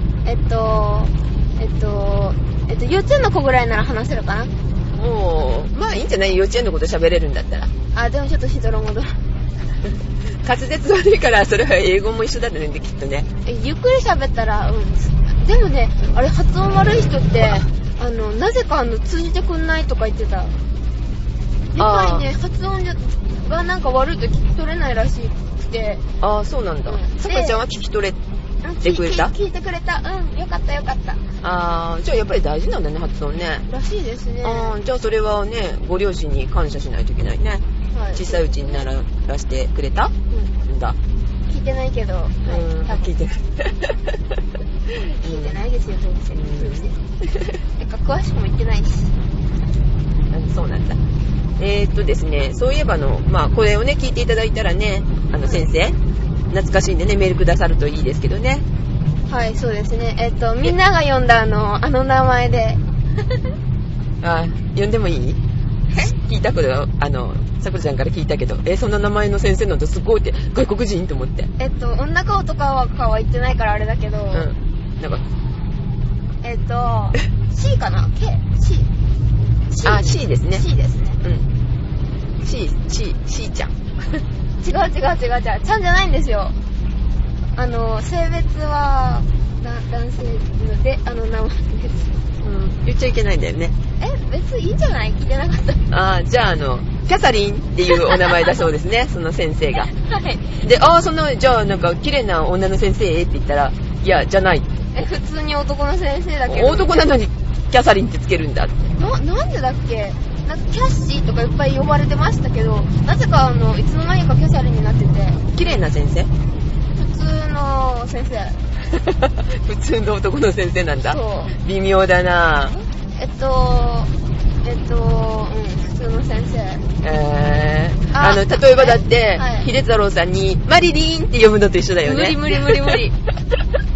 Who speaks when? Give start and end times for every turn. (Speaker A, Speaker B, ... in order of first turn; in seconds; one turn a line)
Speaker A: 0.2-4.5
Speaker B: 4.9-7.7
Speaker A: 7.9-9.1
Speaker B: 10.4-13.3
Speaker A: 13.4-20.5
Speaker A: 21.7-26.0
Speaker B: 21.8-22.2
Speaker B: 26.2-28.2
Speaker A: 26.9-27.6
Speaker A: 28.6-31.2
Speaker B: 28.8-29.3
Speaker B: 31.4-33.6
Speaker A: 33.7-34.8
Speaker B: 34.4-37.6
Speaker A: 37.9-38.9
Speaker B: 38.1-40.1
Speaker B: 40.6-41.0
Speaker A: 41.5-43.1
Speaker B: 42.5-44.2
Speaker A: 45.2-47.0
Speaker B: 45.2-45.6
Speaker B: 46.3-47.5
Speaker A: 47.8-49.1
Speaker B: 50.3-51.0
Speaker B: 51.6-56.0
Speaker B: 56.5-58.6
Speaker A: 59.3-62.8
Speaker B: 64.2-65.4
Speaker B: 65.9-71.5
Speaker A: 71.6-74.5
Speaker B: 74.3-75.2
Speaker A: 76.4-78.9
Speaker A: 79.7-81.2
Speaker B: 79.8-80.7
Speaker B: 81.2-81.5
Speaker B: 82.4-84.2
Speaker A: 84.6-86.5
Speaker A: 87.5-92.2
Speaker B: 92.4-93.7
Speaker A: 94.0-95.8
Speaker B: 95.9-99.9
Speaker A: 99.9-100.6
Speaker B: 100.6-104.9
Speaker A: 104.9-107.1
Speaker B: 106.5-108.9
Speaker A: 109.0-115.5
Speaker B: 115.5-116.3
Speaker A: 117.0-118.6
Speaker B: 118.9-122.8
Speaker A: 121.1-121.5
Speaker A: 123.1-124.1
Speaker A: 124.6-126.8
Speaker B: 127.0-133.0
Speaker A: 128.1-129.7
Speaker A: 132.0-133.1